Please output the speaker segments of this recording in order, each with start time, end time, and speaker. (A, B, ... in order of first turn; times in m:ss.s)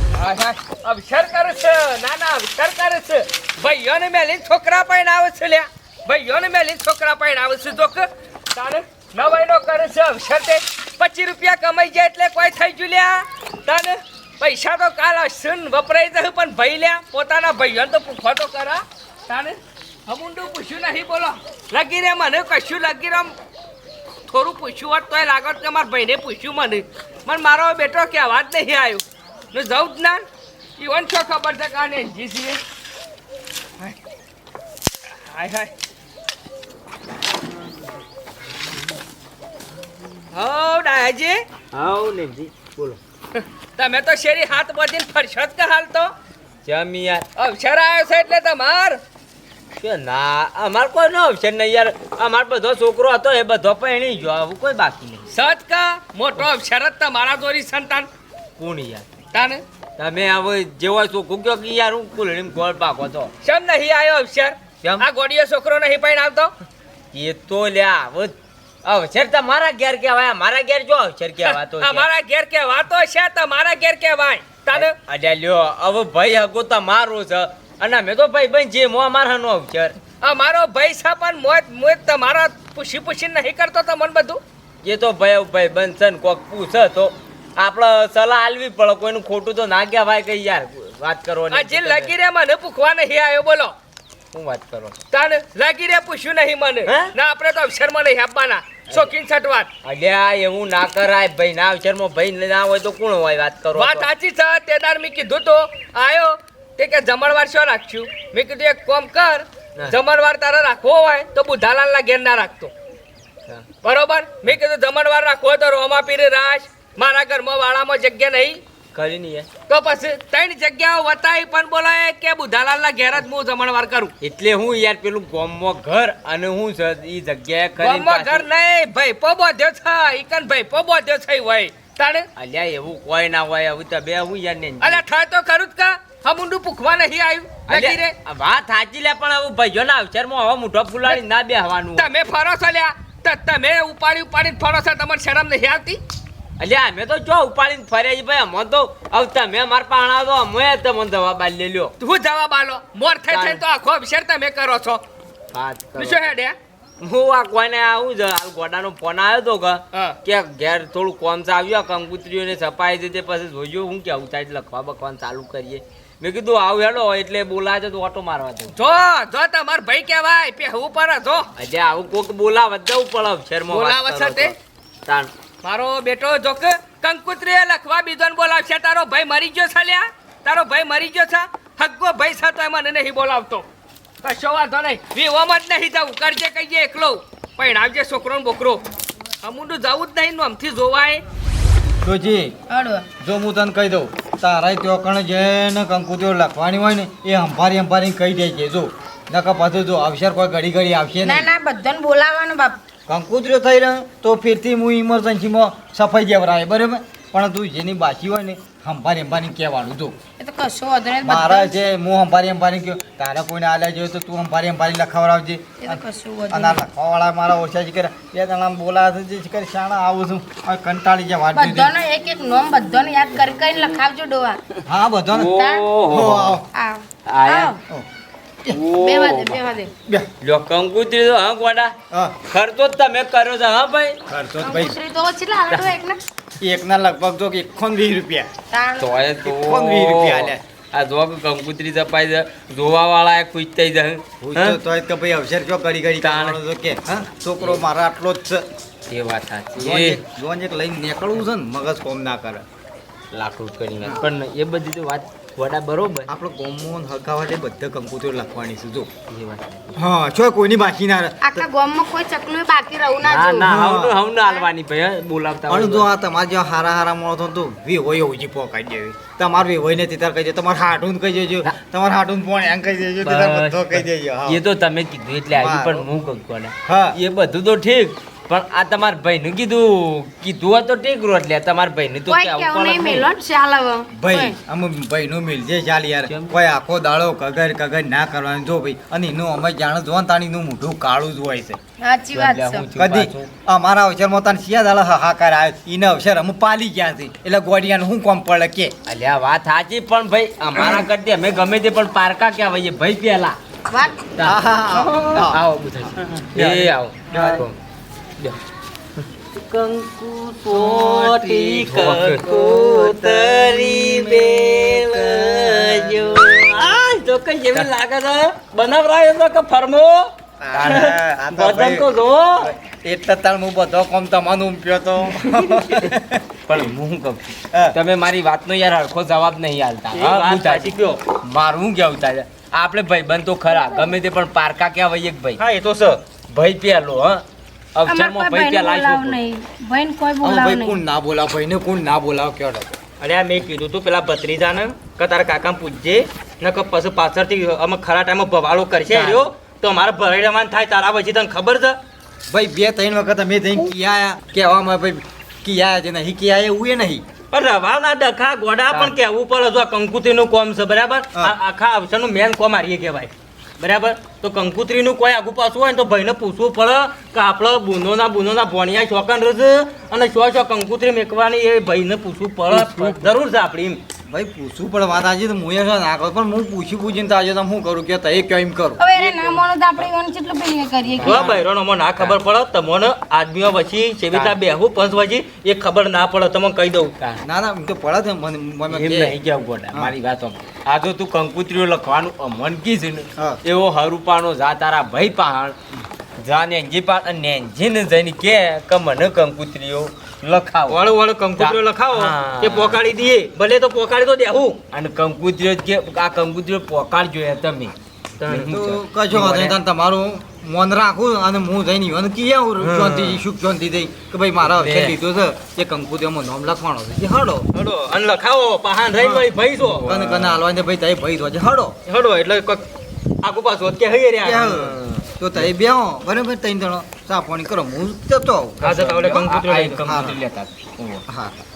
0:00.1-0:23.3 A
0:24.3-0:29.0 A
0:29.5-0:30.2 A
0:30.8-0:32.6 A
0:35.3-0:35.7 A
0:40.3-0:41.4 A
0:41.7-0:43.0 B
0:43.3-0:46.1 A
0:46.6-0:47.3 B
0:47.4-0:49.0 A
0:49.7-0:55.3 B
0:55.3-0:58.1 A
0:58.6-0:59.1 B
0:59.3-0:59.6 A
1:00.0-1:03.3 B
1:03.4-1:06.5 A
1:07.1-1:12.1 B
1:11.4-1:14.9 A
1:14.7-1:20.0 B
1:20.2-1:24.4 A
1:24.8-1:32.1 B
1:31.5-1:33.7 A
1:34.3-1:35.0 B
1:35.1-1:39.7 A
1:36.8-1:37.1 B
1:39.8-1:44.1 B
1:43.7-1:52.7 A
1:53.8-1:58.6 A
1:58.9-1:59.5 B
1:59.7-2:04.1 A
2:04.2-2:08.5 B
2:07.8-2:12.3 A
2:12.4-2:15.0 B
2:14.8-2:18.1 A
2:17.7-2:22.1 B
2:22.0-2:26.0 A
2:26.6-2:31.9 B
2:32.0-2:35.0 A
2:33.3-2:33.6 B
2:35.5-2:36.3 B
2:36.0-2:36.5 A
2:37.0-2:48.7 B
2:48.7-2:51.5 A
2:51.6-2:55.3 B
2:53.7-2:54.5 A
2:55.6-3:03.6 A
3:04.2-3:08.8 A
3:09.4-3:11.2 A
3:12.0-3:12.5 C
3:12.7-3:13.0 D
3:13.2-3:21.5 C
3:21.2-3:22.8 D
3:23.1-3:30.2 C
3:30.4-3:31.7 D
3:31.2-3:41.9 C
3:35.8-3:36.8 D
3:41.5-3:44.6 D
3:44.8-3:46.6 C
3:45.3-3:46.6 B
3:45.5-3:45.9 D
3:46.7-3:47.8 D
3:47.2-3:47.7 B
3:48.7-3:49.6 B
3:48.8-3:49.9 D
3:50.4-3:52.0 B
3:52.1-3:52.4 C
3:52.5-3:54.2 B
3:54.3-3:55.0 C
3:54.6-3:56.2 D
3:56.6-3:58.5 C
3:58.7-3:59.2 D
3:59.0-4:04.8 B
3:59.4-4:00.6 C
4:04.4-4:08.6 C
4:06.2-4:06.6 B
4:09.1-4:10.2 B
4:09.8-4:12.6 C
4:13.3-4:16.3 B
4:16.3-4:19.1 C
4:19.3-4:19.9 B
4:19.9-4:21.6 C
4:21.4-4:23.7 D
4:23.2-4:26.1 B
4:23.6-4:24.2 C
4:25.7-4:34.6 C
4:33.2-4:43.3 B
4:35.5-4:36.1 C
4:36.8-4:37.2 C
4:42.3-4:44.6 D
4:44.1-4:51.8 C
4:46.3-4:46.5 B
4:52.0-4:52.9 D
4:52.3-4:53.5 B
4:53.0-4:58.9 C
4:59.0-5:03.6 B
5:03.9-5:04.2 D
5:04.4-5:07.8 B
5:04.4-5:05.6 C
5:06.3-5:07.6 C
5:09.6-5:17.9 B
5:10.6-5:16.5 C
5:11.9-5:12.4 E
5:16.6-5:20.3 E
5:20.6-5:22.1 C
5:20.7-5:22.7 B
5:20.8-5:21.1 E
5:22.9-5:26.4 C
5:26.7-5:35.6 B
5:30.1-5:31.2 E
5:35.6-5:36.2 E
5:36.5-5:39.4 B
5:38.0-5:41.0 D
5:40.4-5:42.9 C
5:43.2-5:52.0 E
5:49.1-5:49.4 C
5:52.5-5:57.2 C
5:57.5-6:14.0 E
6:14.3-6:19.0 C
6:19.0-6:21.6 D
6:19.1-6:19.6 E
6:21.1-6:21.6 B
6:21.2-6:21.6 C
6:21.2-6:27.1 E
6:27.4-6:29.3 C
6:28.9-6:35.8 B
6:36.4-6:41.0 B
6:40.9-6:44.8 E
6:41.6-6:43.0 B
6:44.9-6:49.8 B
6:48.4-6:48.7 E
6:48.7-6:57.7 C
6:52.8-6:53.4 B
6:54.6-6:55.2 B
6:57.7-7:00.2 E
6:59.8-7:00.6 B
7:00.0-7:02.0 C
7:02.1-7:02.8 E
7:03.4-7:05.0 E
7:04.4-7:08.8 C
7:04.6-7:05.2 B
7:08.8-7:11.2 B
7:08.8-7:10.3 E
7:10.0-7:10.4 C
7:11.3-7:11.5 C